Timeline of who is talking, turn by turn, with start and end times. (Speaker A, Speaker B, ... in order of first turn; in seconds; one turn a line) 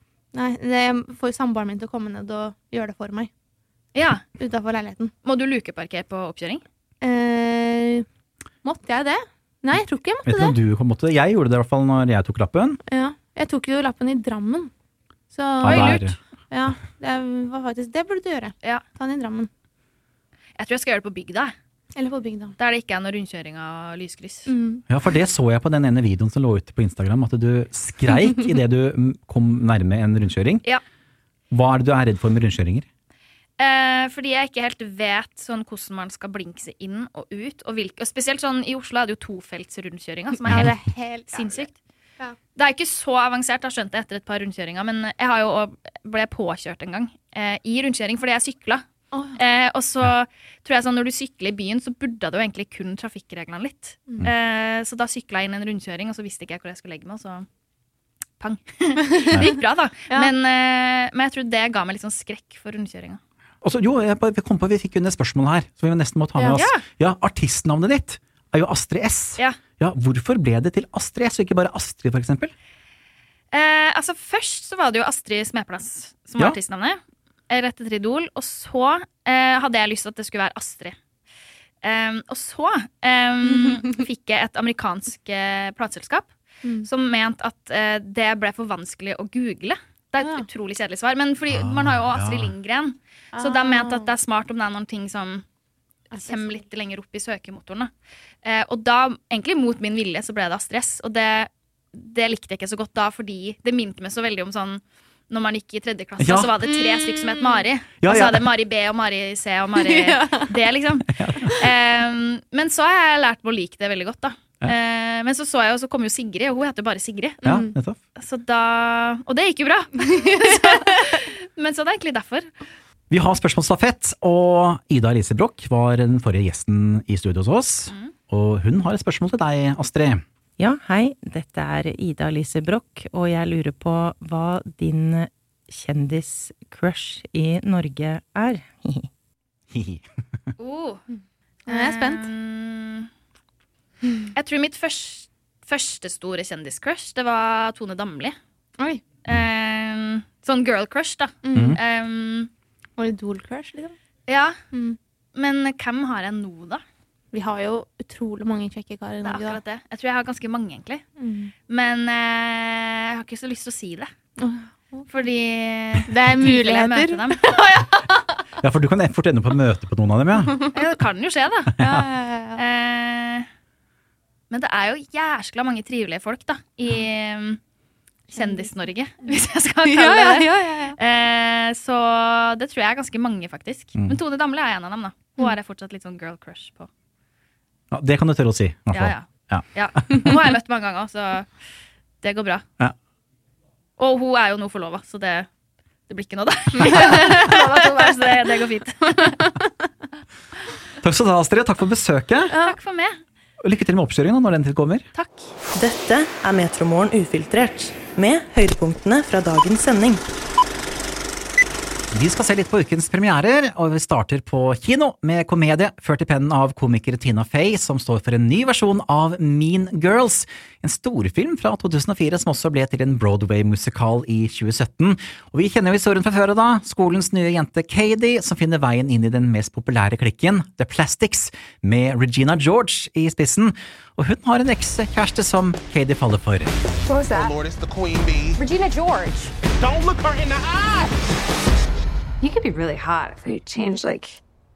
Speaker A: 0.3-3.3
Speaker B: 4.0-4.2
Speaker A: 4.4-5.1
Speaker B: 5.2-6.6
Speaker A: 7.0-8.1
Speaker A: 8.6-10.6
Speaker C: 10.2-12.8
Speaker A: 12.9-14.7
Speaker A: 15.3-19.5
Speaker C: 15.6-16.2
Speaker B: 15.6-16.2
Speaker B: 20.6-21.5
Speaker A: 22.0-22.6
Speaker B: 22.6-24.5
Speaker A: 24.5-24.8
Speaker C: 24.9-30.6
Speaker C: 31.5-32.9
Speaker B: 33.6-40.8
Speaker A: 40.4-41.7
Speaker B: 41.3-41.8
Speaker B: 42.6-48.8
Speaker A: 49.1-49.4
Speaker B: 49.4-57.5
Speaker B: 58.4-63.2
Speaker A: 59.2-59.5
Speaker C: 63.6-72.5
Speaker B: 66.5-66.8
Speaker B: 73.5-77.0
Speaker B: 77.5-80.9
Speaker B: 81.8-86.3
Speaker B: 86.8-95.4
Speaker C: 91.5-92.5
Speaker A: 93.3-94.1
Speaker B: 96.1-97.9
Speaker A: 96.1-96.6
Speaker B: 98.4-117.6
Speaker C: 106.2-106.6
Speaker A: 106.8-107.6
Speaker C: 108.0-108.5
Speaker A: 109.8-110.5
Speaker C: 111.1-111.6
Speaker C: 117.4-118.0
Speaker B: 118.2-122.5
Speaker C: 123.1-130.2
Speaker D: 130.6-139.1
Speaker C: 139.7-140.0
Speaker B: 140.6-141.0
Speaker A: 141.7-142.3
Speaker B: 141.7-143.1
Speaker B: 144.3-148.3
Speaker B: 149.2-152.5
Speaker A: 151.4-151.8
Speaker A: 153.0-153.9
Speaker B: 154.3-154.5
Speaker A: 154.7-155.0
Speaker B: 155.3-156.8
Speaker A: 157.3-159.6
Speaker B: 159.2-161.0
Speaker A: 161.2-161.5
Speaker B: 161.7-164.1
Speaker A: 164.4-165.1
Speaker B: 165.1-167.4
Speaker A: 166.1-168.2
Speaker C: 168.6-170.7
Speaker B: 170.7-171.8
Speaker A: 171.8-172.6
Speaker B: 172.6-173.5
Speaker B: 174.5-177.6
Speaker A: 178.3-178.7
Speaker B: 178.3-180.5
Speaker A: 179.8-181.0
Speaker B: 181.0-186.9
Speaker C: 187.9-190.4
Speaker B: 188.9-191.5
Speaker B: 192.2-192.6
Speaker B: 194.0-195.5
Speaker B: 196.1-199.5
Speaker A: 199.2-199.7
Speaker C: 201.0-202.5
Speaker A: 202.5-202.8
Speaker B: 202.6-203.1
Speaker C: 203.6-205.1
Speaker B: 205.1-205.5
Speaker E: 205.8-210.2
Speaker C: 212.1-236.8
Speaker F: 237.1-237.6
Speaker F: 238.6-239.5
Speaker F: 242.4-244.4